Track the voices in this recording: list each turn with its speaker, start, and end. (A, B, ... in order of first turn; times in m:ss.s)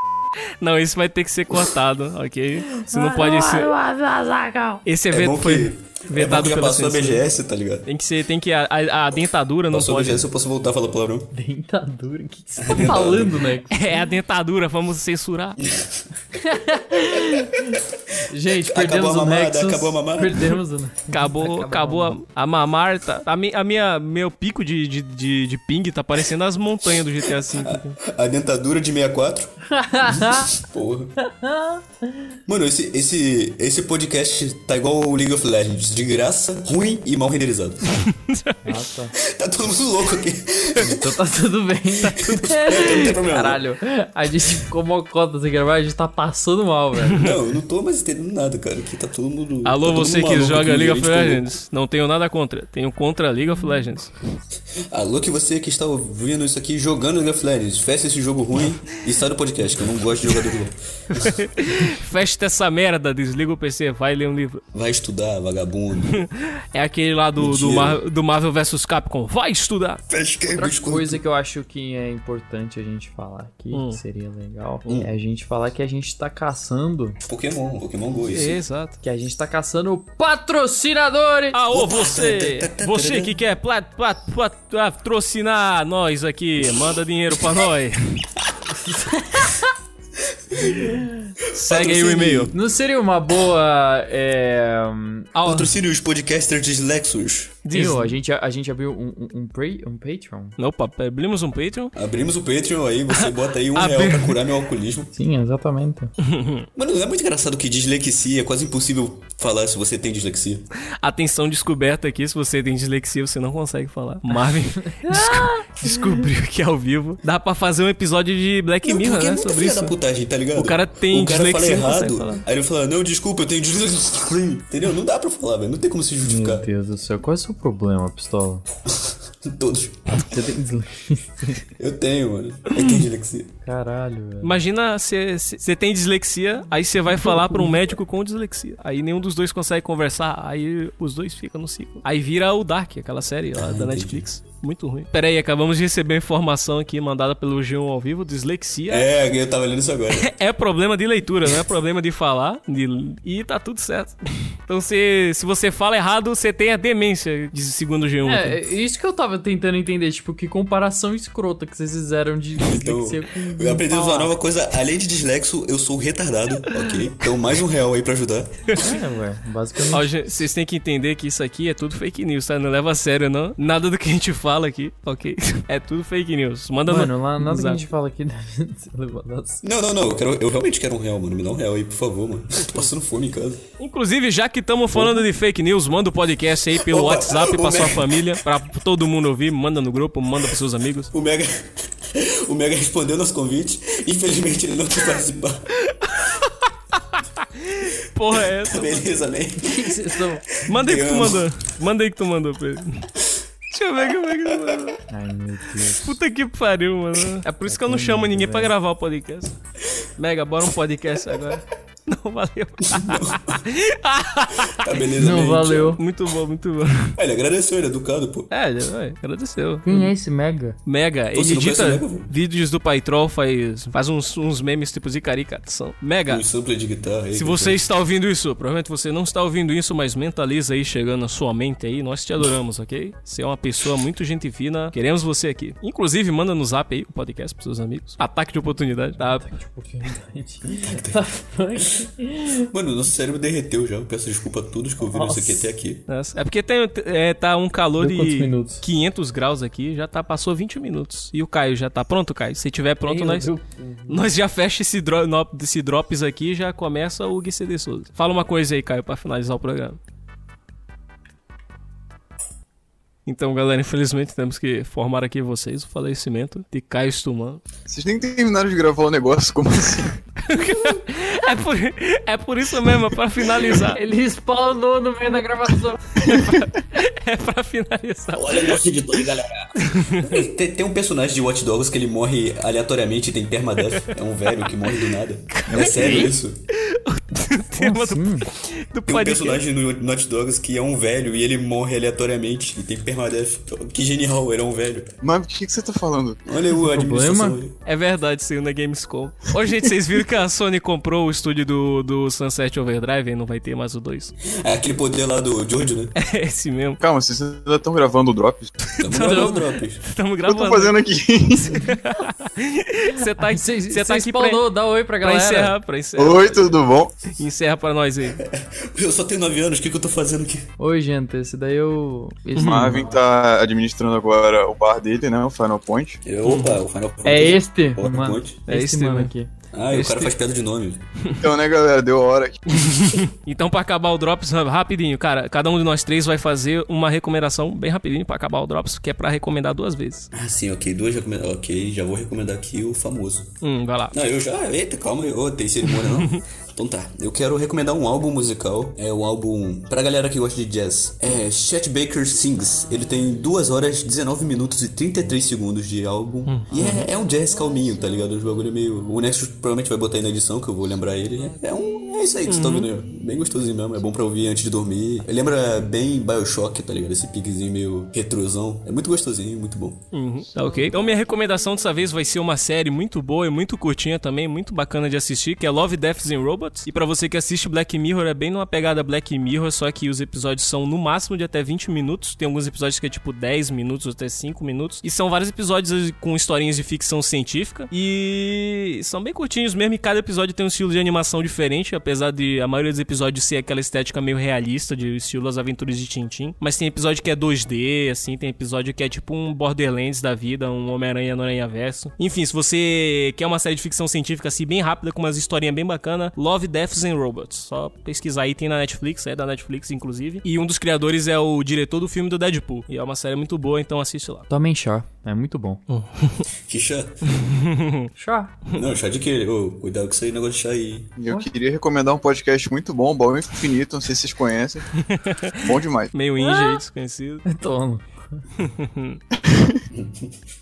0:00.6-0:03.7 A
0:02.8-0:04.8 B
0:04.8-0:07.2 A
0:05.1-0:07.9 C
0:07.9-0:10.3 A
0:09.7-0:11.3 C
0:11.3-0:13.9 B
0:12.6-0:13.5 C
0:13.7-0:15.6 A
0:15.6-0:16.0 C
0:16.3-0:22.2 B
0:18.6-0:20.6 C
0:21.1-0:28.0 A
0:27.5-0:29.6 C
0:29.7-0:30.5 B
0:30.1-0:31.1 C
0:31.2-0:31.8 B
0:32.5-0:37.9 C
0:37.9-0:38.6 A
0:38.6-0:39.1 B
0:39.2-0:41.0 C
0:40.8-0:47.3 B
0:42.1-0:43.6 C
0:47.2-0:51.4 C
0:49.6-0:54.1 A
0:54.9-1:01.3 C
1:01.2-1:04.6 A
1:04.7-1:06.2 C
1:06.0-1:10.0 A
1:07.4-1:08.0 C
1:10.1-1:11.2 C
1:10.5-1:17.2 B
1:13.7-1:14.0 A
1:17.2-1:18.6 C
1:18.3-1:19.0 A
1:19.0-1:21.6 B
1:21.5-1:28.3 A
1:21.7-1:23.4 C
1:28.7-1:29.7 B
1:30.5-1:30.9 C
1:30.6-1:31.3 B
1:31.5-1:32.5 A
1:31.5-1:32.5 C
1:32.5-1:35.3 B
1:35.3-1:35.7 A
1:35.4-1:37.6 C
1:37.6-1:38.2 A
1:37.7-1:40.6 B
1:40.6-1:41.9 A
1:42.0-1:45.1 C
1:43.1-1:44.4 A
1:45.1-1:46.1 B
1:46.2-1:46.7 A
1:46.8-1:50.6 C
1:51.0-2:00.0 A
1:55.1-1:56.0 B
1:58.8-2:06.7 C
2:00.5-2:02.4 A
2:06.2-2:08.6 B
2:08.9-2:10.0 C
2:10.3-2:11.6 B
2:11.8-2:13.5 C
2:13.6-2:14.6 B
2:14.4-2:29.1 A
2:17.1-2:17.7 B
2:23.6-2:24.2 C
2:28.9-2:30.2 C
2:30.1-2:38.6 A
2:38.2-2:44.4 B
2:42.6-2:48.5 C
2:48.8-2:50.1 B
2:49.9-2:57.9 A
2:56.9-2:59.6 B
2:59.6-3:03.6 C
3:03.8-3:11.1 A
3:05.0-3:05.3 C
3:06.7-3:08.4 C
3:11.1-3:15.6 C
3:15.9-3:19.2 A
3:18.6-3:21.5 C
3:19.6-3:20.4 B
3:20.7-3:23.1 A
3:23.7-3:25.0 A
3:25.1-3:26.2 B
3:25.9-3:29.5 A
3:27.6-3:28.7 B
3:30.2-3:35.4 A
3:32.9-3:33.6 C
3:34.7-3:36.0 C
3:35.2-3:36.0 B
3:36.0-3:37.1 A
3:37.2-3:38.5 C
3:38.5-3:40.1 A
3:39.8-3:40.8 B
3:40.9-3:46.4 A
3:41.3-3:42.3 C
3:46.3-3:47.8 C
3:47.3-3:59.5 A
3:59.4-4:02.6 B
4:00.8-4:01.2 C
4:02.7-4:06.0 C
4:05.0-4:05.7 B
4:06.1-4:13.5 A
4:08.0-4:08.8 B
4:13.0-4:14.3 B
4:14.1-4:20.0 A
4:23.3-4:27.6 A
4:27.9-4:30.2 D
4:30.4-4:34.0 A
4:33.8-4:36.4 B
4:36.2-4:39.2 A
4:38.4-4:46.6 C
4:39.8-4:40.5 A
4:44.8-4:46.4 A
4:46.9-4:49.6 A
4:47.8-4:48.5 B
4:49.1-4:55.1 C
4:55.2-4:56.4 D
4:56.4-4:57.8 C
4:56.7-4:57.6 B
4:57.8-5:04.3 A
5:04.4-5:06.1 C
5:06.2-5:07.0 A
5:07.0-5:08.8 D
5:08.8-5:11.0 A
5:09.0-5:10.0 C
5:09.1-5:09.6 B
5:10.5-5:11.9 D
5:11.7-5:14.6 A
5:13.2-5:15.8 B
5:15.2-5:18.4 A
5:16.2-5:17.3 D
5:18.4-5:20.6 C
5:20.8-5:23.1 B
5:22.6-5:26.2 D
5:26.2-5:28.6 C
5:26.4-5:26.8 A
5:27.2-5:29.5 B
5:28.7-5:29.3 A
5:29.7-5:31.0 C
5:29.9-5:30.3 A
5:31.4-5:32.8 D
5:32.7-5:40.3 A
5:40.3-5:43.5 C
5:43.6-5:44.1 A
5:44.1-6:10.0 C
5:45.9-5:46.4 A
5:56.5-5:57.1 A
6:02.5-6:02.9 A
6:10.1-6:54.5 A
6:54.5-6:55.8 B
6:55.9-6:56.4 A
6:56.7-6:57.1 C
6:57.3-6:58.1 A
6:58.2-6:58.6 B
6:58.7-7:01.1 C
7:01.2-7:06.1 D
7:05.0-7:05.5 A
7:06.1-7:07.4 A
7:06.4-7:06.8 B
7:07.5-7:08.1 B
7:08.6-7:09.2 A
7:09.5-7:09.8 D
7:10.0-7:10.2 C